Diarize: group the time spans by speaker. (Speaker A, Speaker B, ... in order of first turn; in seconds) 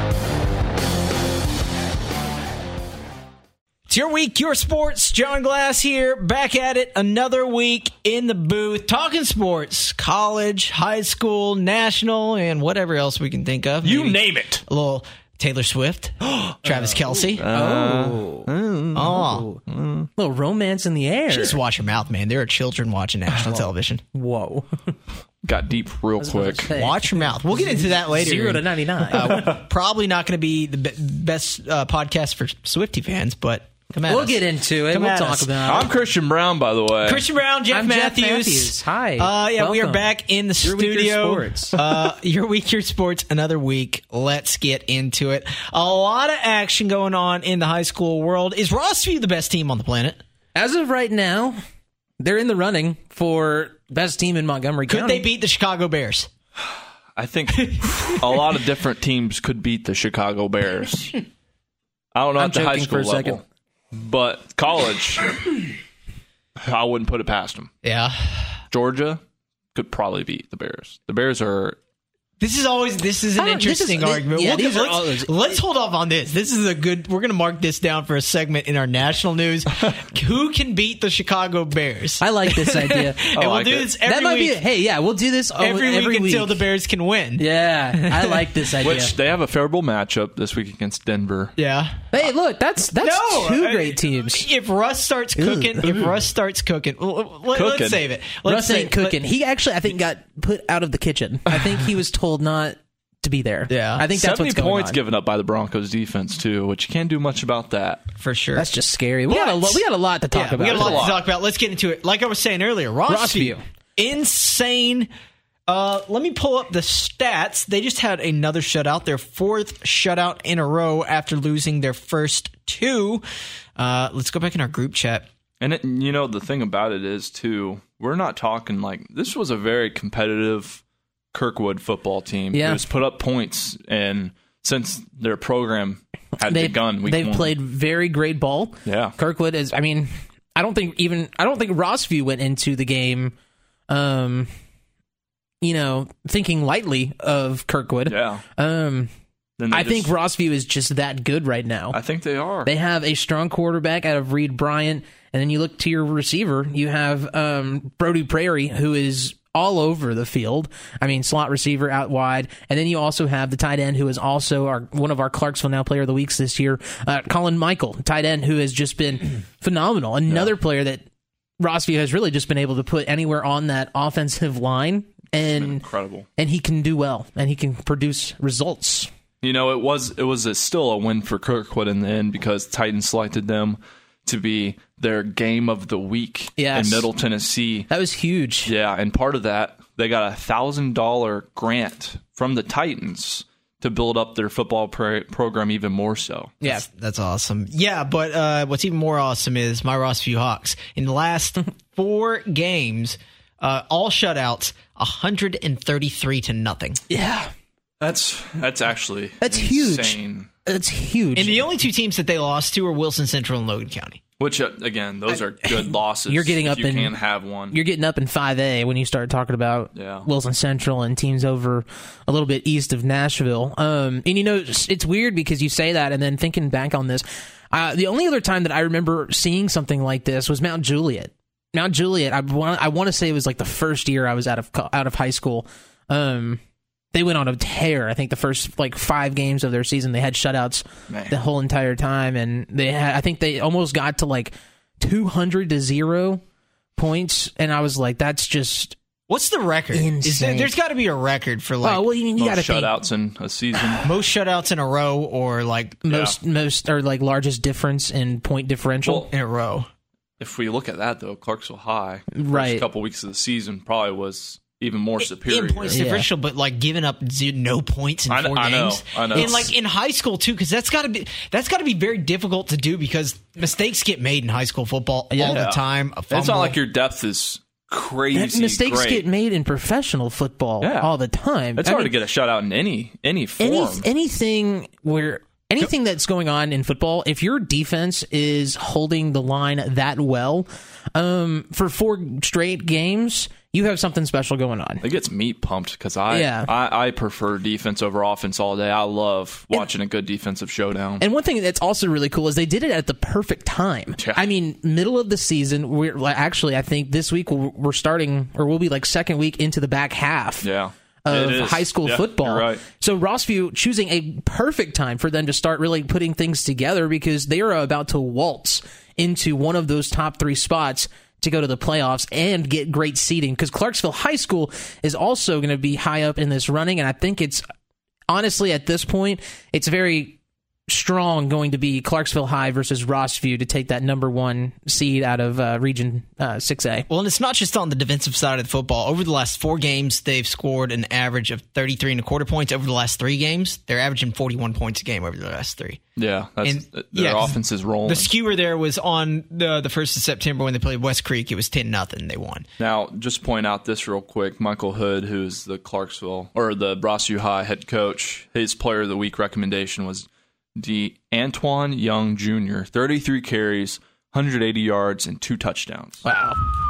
Speaker A: 3.9-17.4, 18.9-19.5, 21.3-24.0, 26.7-35.8, 37.0-50.2, 54.9-56.3, 57.7-58.4, 67.8-68.6, 72.4-84.6, 85.5-89.0, 91.6-92.2, 93.0-99.2, 103.7-104.0, 108.2-108.7, 109.3-109.8, 110.3-115.1, 115.7-123.2, 123.8-125.3, 196.6-207.0, 211.3-214.2, 249.3-252.0, 254.0-256.1, 259.3-259.9, 265.4-276.8, 337.1-346.0, 346.6-352.7
Speaker B: 13.8-14.6, 17.3-20.1, 25.4-26.7, 35.6-37.2, 57.1-61.2, 62.1-65.5, 66.6-67.7, 68.7-69.2, 69.7-71.8, 83.3-83.9, 88.8-91.5, 97.5-98.0, 104.1-108.0, 110.6-111.2, 125.6-130.8, 131.3-137.5, 138.8-139.2, 148.1-148.4, 149.6-150.1, 151.9-152.7, 170.3-170.5, 175.5-176.3, 179.4-187.9, 188.7-196.6, 208.0-210.5, 214.4-217.8, 219.9-220.2, 241.1-241.3, 252.4-254.1, 256.1-256.4, 260.4-266.0, 268.3-269.6, 275.4-279.2, 280.8-281.1, 281.8-284.1, 295.0-301.2, 304.2-304.4, 310.6-312.8, 346.1-348.3, 352.8-366.2
Speaker C: 17.5-18.5, 19.0-19.6, 20.2-21.6, 24.1-24.8, 26.2-29.5, 34.0-35.9, 37.7-40.1, 40.6-41.8, 50.5-51.6, 52.2-55.2, 62.4-63.4, 73.4-75.3, 82.2-83.3, 84.0-86.6, 87.4-89.1, 92.1-94.5, 95.4-95.9, 98.5-105.0, 108.5-111.1, 113.1-113.6, 132.5-132.8, 136.4-143.3, 143.9-144.5, 145.6-149.1, 149.7-152.0, 152.6-171.0, 171.6-175.8, 176.4-179.1, 186.6-187.1, 187.9-188.7, 207.1-207.5, 209.4-211.7, 215.8-217.1, 217.7-236.6, 237.1-246.4, 247.0-248.9, 249.9-250.7, 251.8-252.9, 256.1-259.3, 262.3-262.8, 265.9-266.3, 269.3-269.7, 275.3-275.6, 278.3-282.1, 283.6-295.0, 296.3-296.7, 301.2-310.7, 311.2-327.6, 328.3-337.1, 366.2-366.6